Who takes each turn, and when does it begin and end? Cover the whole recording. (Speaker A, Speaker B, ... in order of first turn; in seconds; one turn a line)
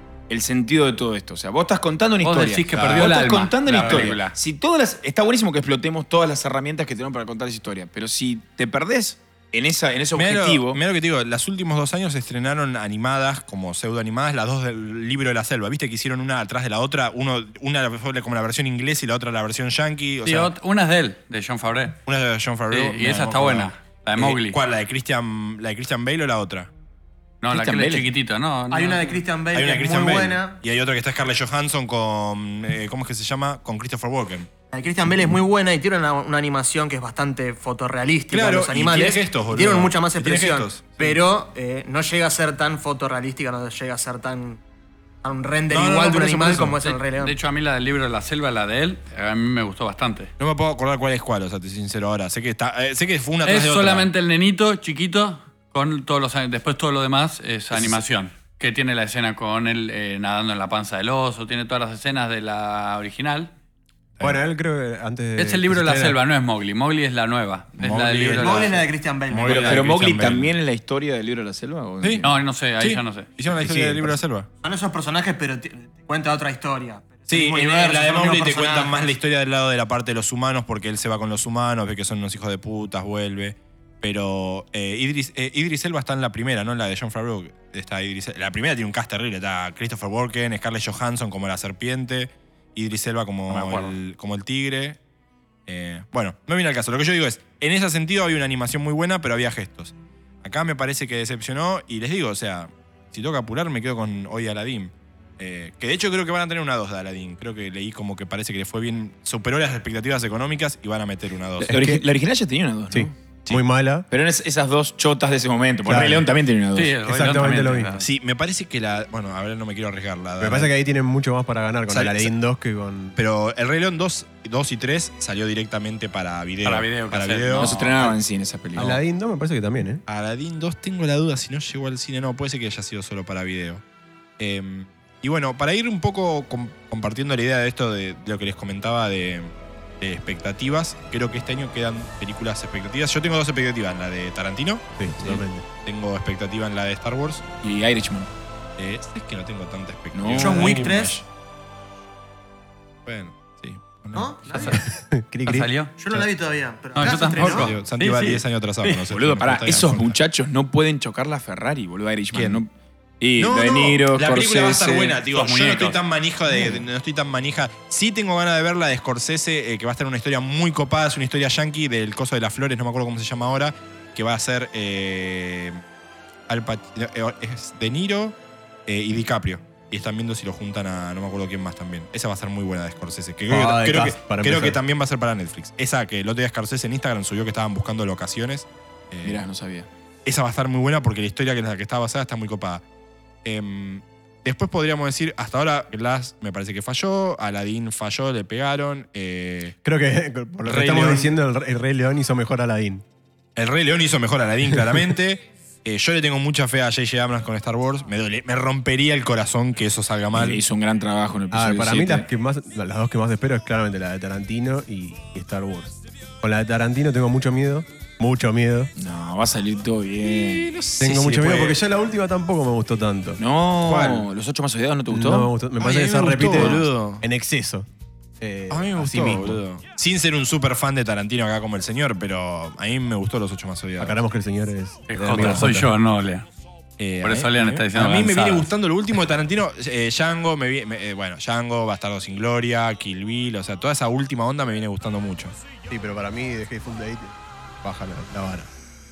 Speaker A: 0.3-10.8
Speaker B: 2.2-4.4
Speaker C: 10.1-20.5
Speaker B: 20.2-22.0
Speaker C: 22.1-26.7
Speaker B: 22.7-24.6
Speaker B: 27.4-29.2
Speaker A: 27.5-28.1
Speaker D: 28.7-30.6
Speaker C: 29.5-34.5
Speaker D: 34.7-44.6
Speaker C: 38.3-41.2
Speaker D: 45.2-47.4
Speaker C: 45.7-46.8
Speaker B: 46.8-50.3
Speaker C: 50.4-54.1
Speaker B: 53.4-63.5
Speaker E: 64.2-66.2
Speaker B: 65.4-68.7
Speaker C: 67.8-70.5
Speaker D: 68.4-69.9
Speaker A: 69.5-72.3
Speaker B: 72.2-73.3
Speaker C: 72.8-74.5
Speaker E: 73.6-74.2
Speaker D: 74.6-79.1
Speaker C: 77.3-95.0
Speaker B: 93.5-94.0
Speaker C: 95.7-111.9
Speaker A: 111.6-113.2
Speaker E: 111.7-112.0
Speaker E: 112.9-114.1
Speaker A: 114.1-117.0
Speaker E: 115.8-116.3
Speaker B: 116.8-118.1
Speaker E: 117.0-118.0
Speaker C: 118.0-120.7
Speaker E: 120.4-123.2
Speaker C: 121.9-122.3
Speaker C: 123.2-128.1
Speaker B: 126.6-127.8
Speaker A: 127.5-129.0
Speaker E: 128.8-130.0
Speaker C: 130.1-133.8
Speaker C: 134.4-147.5
Speaker E: 145.0-145.7
Speaker A: 147.6-148.3
Speaker C: 148.8-151.2
Speaker A: 150.1-151.0
Speaker D: 150.3-151.2
Speaker C: 153.1-154.4
Speaker D: 154.1-154.8
Speaker B: 154.5-154.8
Speaker E: 154.7-155.7
Speaker B: 155.5-155.9
Speaker D: 156.0-157.8
Speaker B: 157.0-159.0
Speaker C: 157.0-160.2
Speaker A: 159.1-165.2
Speaker C: 162.3-162.6
Speaker C: 163.4-175.8
Speaker B: 165.2-166.0
Speaker C: 176.5-189.4
Speaker E: 183.5-184.8
Speaker A: 189.2-189.9
Speaker C: 190.2-192.8
Speaker C: 193.4-199.8
Speaker E: 199.8-203.1
Speaker A: 200.7-201.3
Speaker C: 203.6-210.6
Speaker E: 204.7-205.1
Speaker A: 210.3-212.3
Speaker E: 211.5-218.9
Speaker A: 219.0-220.7
Speaker C: 220.2-221.8
Speaker E: 221.0-223.4
Speaker A: 223.4-225.5
Speaker C: 223.8-224.3
Speaker E: 225.1-227.9
Speaker C: 225.8-227.2
Speaker E: 228.4-229.6
Speaker C: 228.7-234.2
Speaker E: 234.0-235.9
Speaker B: 235.1-236.5
Speaker C: 235.4-235.8
Speaker C: 237.0-245.6
Speaker B: 237.2-238.7
Speaker E: 245.9-248.7